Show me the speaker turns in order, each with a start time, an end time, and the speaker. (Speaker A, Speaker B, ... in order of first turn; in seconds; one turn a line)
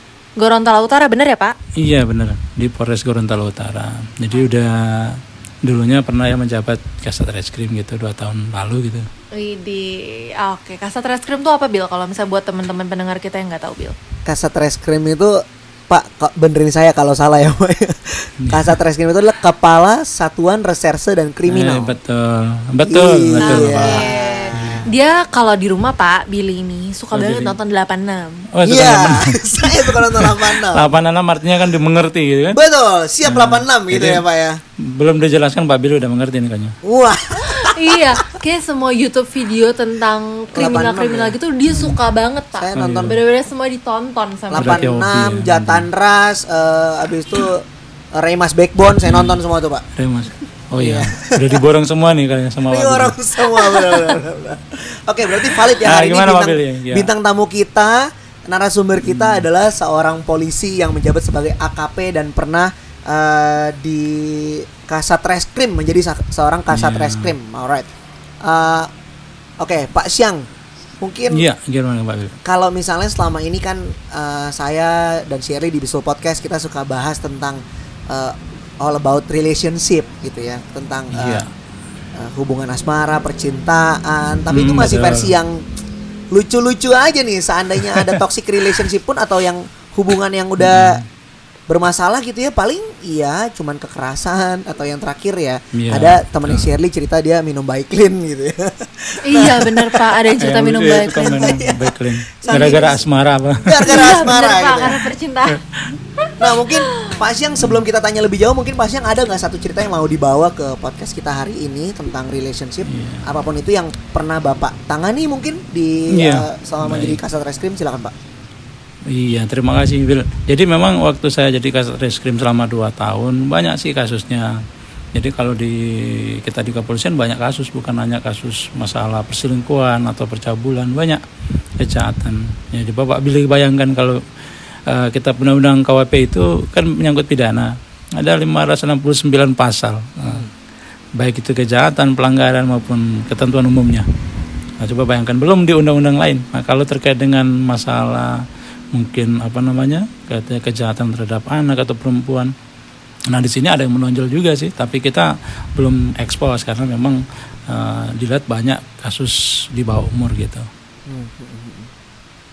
Speaker A: 0.4-1.6
Speaker B: 1.8-9.1
Speaker A: 9.3-14.0
Speaker C: 14.3-21.9
Speaker B: 18.4-18.8
Speaker B: 21.5-24.8
Speaker C: 22.8-24.9
Speaker A: 23.4-28.5
Speaker B: 27.1-27.6
Speaker B: 28.5-32.6
Speaker C: 28.6-31.0
Speaker C: 32.5-34.6
Speaker B: 33.2-34.2
Speaker B: 34.8-36.8
Speaker C: 36.9-38.2
Speaker A: 37.5-45.0
Speaker C: 40.5-41.4
Speaker B: 41.7-42.0
Speaker C: 42.6-43.2
Speaker B: 42.8-43.2
Speaker C: 44.5-49.8
Speaker B: 44.6-45.9
Speaker B: 49.0-49.4
Speaker B: 50.0-53.2
Speaker C: 50.8-51.6
Speaker C: 52.7-67.9
Speaker A: 53.5-54.2
Speaker B: 55.8-57.1
Speaker B: 59.0-59.5
Speaker B: 66.7-67.3
Speaker C: 68.4-68.9
Speaker C: 69.6-70.5
Speaker C: 71.0-71.4
Speaker B: 71.3-72.4
Speaker C: 72.5-81.4
Speaker B: 81.1-81.5
Speaker C: 82.2-85.6
Speaker B: 84.5-85.3
Speaker C: 86.3-91.0
Speaker B: 90.6-91.1
Speaker C: 91.7-100.2
Speaker B: 95.8-96.8
Speaker A: 99.2-101.6
Speaker B: 100.4-103.9
Speaker C: 101.1-103.1
Speaker A: 102.5-103.0
Speaker C: 103.6-105.0
Speaker A: 103.8-105.6
Speaker B: 105.5-106.0
Speaker A: 106.2-107.2
Speaker C: 106.4-118.1
Speaker B: 112.9-113.3
Speaker B: 116.1-117.2
Speaker B: 119.1-124.6
Speaker B: 125.1-131.2
Speaker B: 131.8-134.2
Speaker B: 134.9-140.5
Speaker B: 141.2-144.1
Speaker B: 144.8-148.4
Speaker B: 148.9-152.5
Speaker B: 153.3-160.7
Speaker C: 161.1-161.9